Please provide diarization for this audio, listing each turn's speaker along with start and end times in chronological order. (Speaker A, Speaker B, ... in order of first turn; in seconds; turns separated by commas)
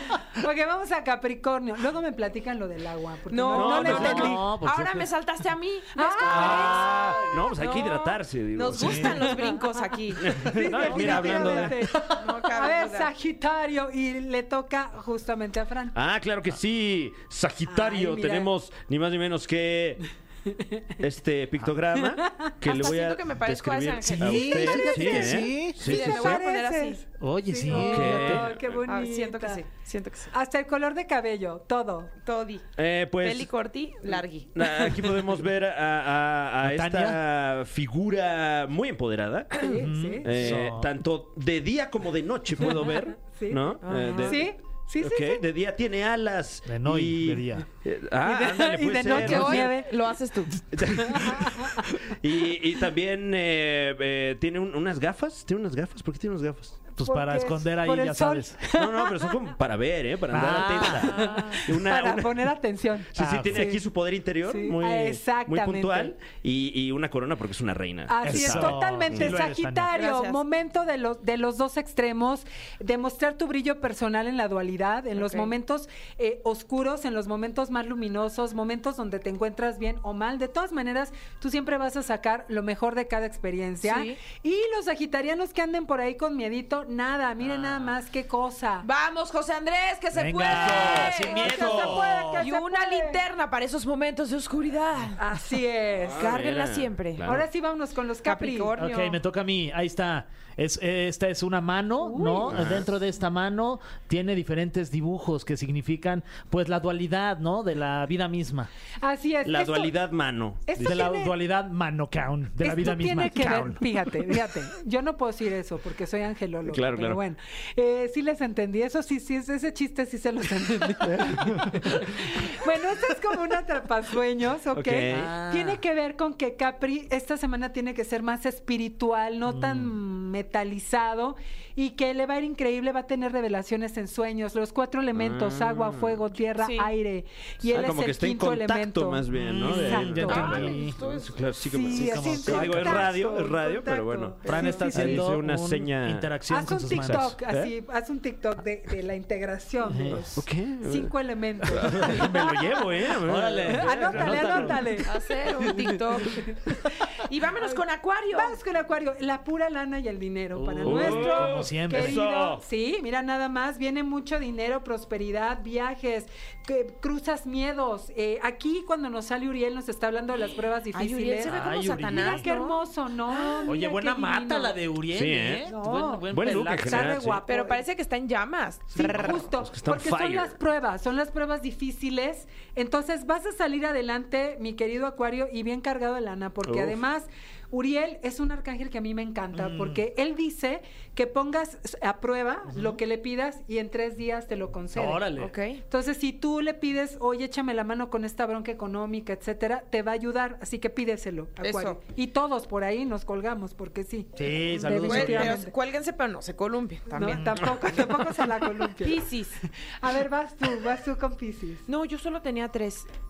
Speaker A: 0.3-4.5, Speaker B: 3.3-6.9, Speaker C: 3.5-4.4, Speaker D: 3.9-5.1, Speaker A: 5.9-6.9, Speaker C: 6.2-9.4, Speaker D: 6.4-7.8, Speaker B: 7.6-13.1, Speaker D: 8.7-9.3, Speaker A: 9.3-9.7, Speaker C: 10.2-11.8, Speaker A: 10.2-16.0, Speaker C: 15.9-20.0, Speaker A: 17.7-18.5, Speaker A: 20.5-20.9, Speaker C: 21.0-26.4, Speaker A: 22.1-22.5, Speaker B: 22.6-27.0, Speaker D: 24.1-25.8, Speaker A: 24.7-29.7, Speaker D: 27.2-28.5, Speaker C: 27.7-28.8, Speaker B: 27.7-28.3, Speaker B: 28.9-30.3, Speaker A: 30.3-32.1, Speaker B: 32.2-32.7, Speaker C: 32.8-33.5, Speaker B: 33.2-34.7, Speaker C: 34.5-39.7, Speaker D: 36.6-37.2, Speaker A: 39.5-40.5, Speaker D: 39.8-40.9, Speaker C: 40.2-49.8, Speaker A: 42.6-45.4, Speaker B: 43.8-44.4, Speaker D: 46.7-47.6, Speaker A: 48.2-49.9, Speaker B: 49.1-50.8, Speaker C: 50.7-56.8, Speaker A: 51.0-51.9, Speaker A: 57.0-59.3, Speaker D: 57.0-58.6, Speaker C: 58.7-62.5, Speaker D: 60.3-61.1, Speaker B: 60.8-61.6, Speaker A: 61.1-63.8, Speaker C: 63.1-69.4, Speaker D: 63.2-63.7, Speaker A: 64.4-66.2, Speaker A: 68.1-88.9, Speaker D: 68.2-69.9, Speaker B: 69.9-70.4, Speaker B: 75.2-75.5, Speaker B: 83.8-84.2, Speaker B: 88.8-95.3, Speaker D: 90.1-92.4, Speaker A: 90.5-93.2, Speaker C: 90.5-92.0, Speaker A: 95.2-96.3, Speaker C: 96.0-97.5, Speaker B: 96.2-97.3, Speaker A: 97.2-98.7, Speaker B: 98.2-99.2, Speaker D: 98.8-108.7, Speaker A: 102.0-102.5, Speaker C: 102.5-102.9, Speaker A: 109.0-110.0, Speaker C: 109.5-111.1, Speaker A: 110.7-111.3, Speaker D: 110.8-114.3, Speaker A: 112.6-140.8, Speaker C: 116.7-117.2, Speaker C: 121.2-122.0, Speaker C: 124.8-125.3, Speaker D: 125.1-125.8, Speaker D: 129.5-130.0, Speaker C: 135.2-136.3, Speaker B: 136.6-136.9, Speaker C: 137.7-147.7, Speaker D: 139.3-141.0, Speaker B: 140.2-141.4, Speaker A: 141.6-145.3, Speaker D: 141.9-143.1, Speaker D: 144.4-147.4, Speaker A: 146.5-152.7, Speaker D: 149.8-150.4, Speaker C: 150.3-154.8, Speaker D: 151.9-152.5, Speaker D: 153.2-155.1, Speaker A: 153.7-155.3, Speaker B: 155.1-156.4, Speaker D: 155.7-155.9, Speaker B: 157.2-158.6, Speaker A: 158.3-174.8, Speaker D: 160.6-162.2, Speaker C: 160.8-162.6, Speaker B: 170.9-173.8, Speaker D: 171.4-172.5, Speaker D: 173.7-177.4, Speaker C: 175.1-175.7, Speaker A: 175.7-177.9, Speaker C: 176.3-177.4, Speaker B: 177.5-179.5, Speaker C: 178.9-180.6, Speaker A: 178.9-195.3, Speaker C: 186.7-187.0, Speaker D: 189.5-190.0, Speaker D: 192.7-193.0, Speaker D: 194.9-195.5, Speaker B: 195.4-195.8, Speaker A: 195.9-205.7, Speaker B: 201.6-202.0, Speaker D: 204.4-205.6, Speaker B: 204.9-207.5, Speaker A: 207.1-209.3, Speaker D: 207.3-207.6, Speaker B: 209.0-209.6, Speaker A: 209.9-211.8, Speaker B: 211.9-213.1